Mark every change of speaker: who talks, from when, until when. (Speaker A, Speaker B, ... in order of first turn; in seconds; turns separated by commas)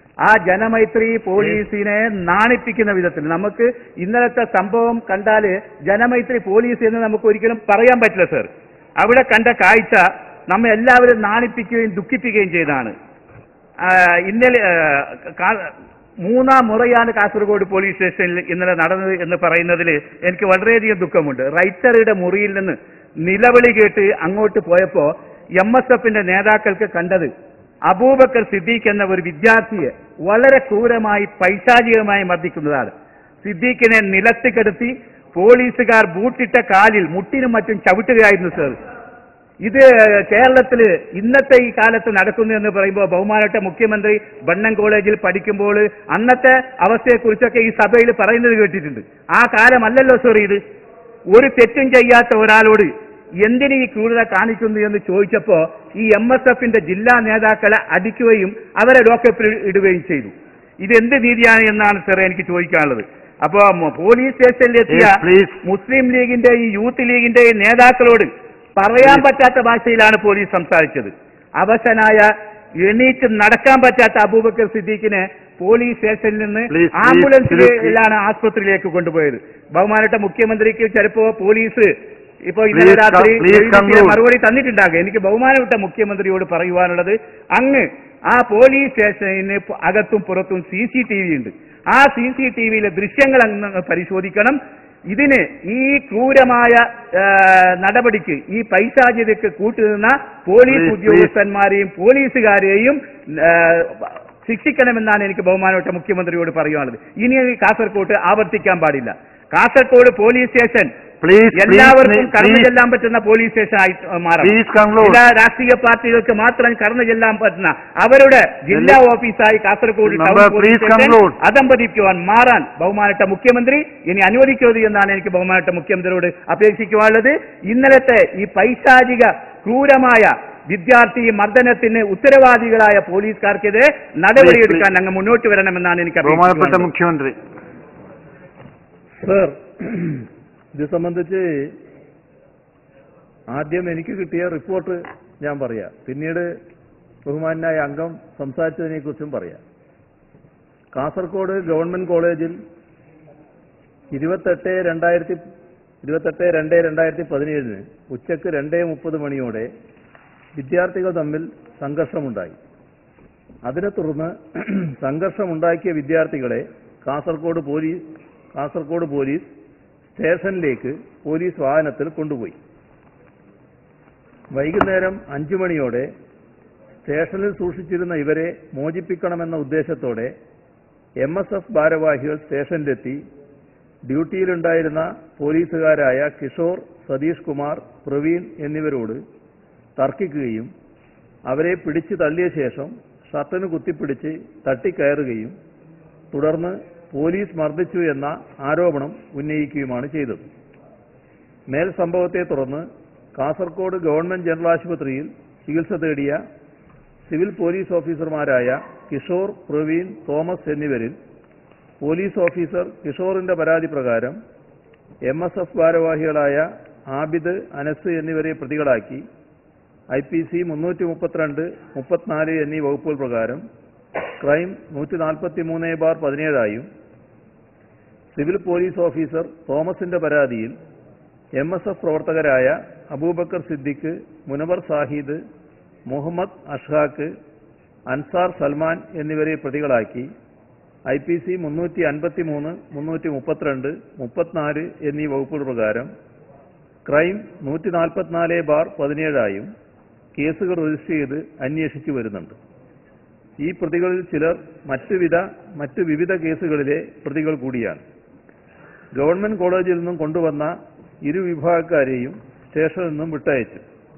Speaker A: 0.2-12.9, Speaker A: 13.8-15.7, Speaker A: 16.2-27.3, Speaker A: 27.9-32.9, Speaker A: 33.4-38.8, Speaker A: 39.6-50.6, Speaker A: 51.3-52.9, Speaker A: 53.4-72.3, Speaker B: 64.9-65.6, Speaker A: 72.8-81.9, Speaker B: 76.7-78.0, Speaker A: 82.4-94.6, Speaker B: 82.7-84.2, Speaker A: 95.1-110.9, Speaker B: 100.7-101.3, Speaker B: 111.2-112.7, Speaker A: 111.5-136.9, Speaker B: 114.4-115.2, Speaker B: 118.7-119.0, Speaker B: 120.0-121.3, Speaker B: 134.4-134.8, Speaker B: 136.2-137.4, Speaker C: 139.2-141.7, Speaker C: 143.5-146.5, Speaker C: 147.2-149.6, Speaker C: 150.9-152.6, Speaker C: 154.1-155.4, Speaker C: 156.0-159.7, Speaker C: 160.6-162.6, Speaker C: 163.7-168.0, Speaker C: 168.5-169.4, Speaker C: 170.1-172.6, Speaker C: 174.5-176.1, Speaker C: 177.0-180.3, Speaker C: 181.2-183.2, Speaker C: 184.1-189.2, Speaker C: 190.0-190.7, Speaker C: 191.5-195.5, Speaker C: 196.3-200.5, Speaker C: 201.7-206.4, Speaker C: 207.3-211.1, Speaker C: 212.0-214.3, Speaker C: 215.3-219.2, Speaker C: 220.1-223.6, Speaker C: 224.4-226.8, Speaker C: 228.3-230.7, Speaker C: 231.6-235.4, Speaker C: 236.1-237.3, Speaker C: 238.1-240.3, Speaker C: 241.1-246.1, Speaker C: 247.1-249.7, Speaker C: 250.3-252.6, Speaker C: 253.6-258.0, Speaker C: 259.1-260.7, Speaker C: 261.2-263.8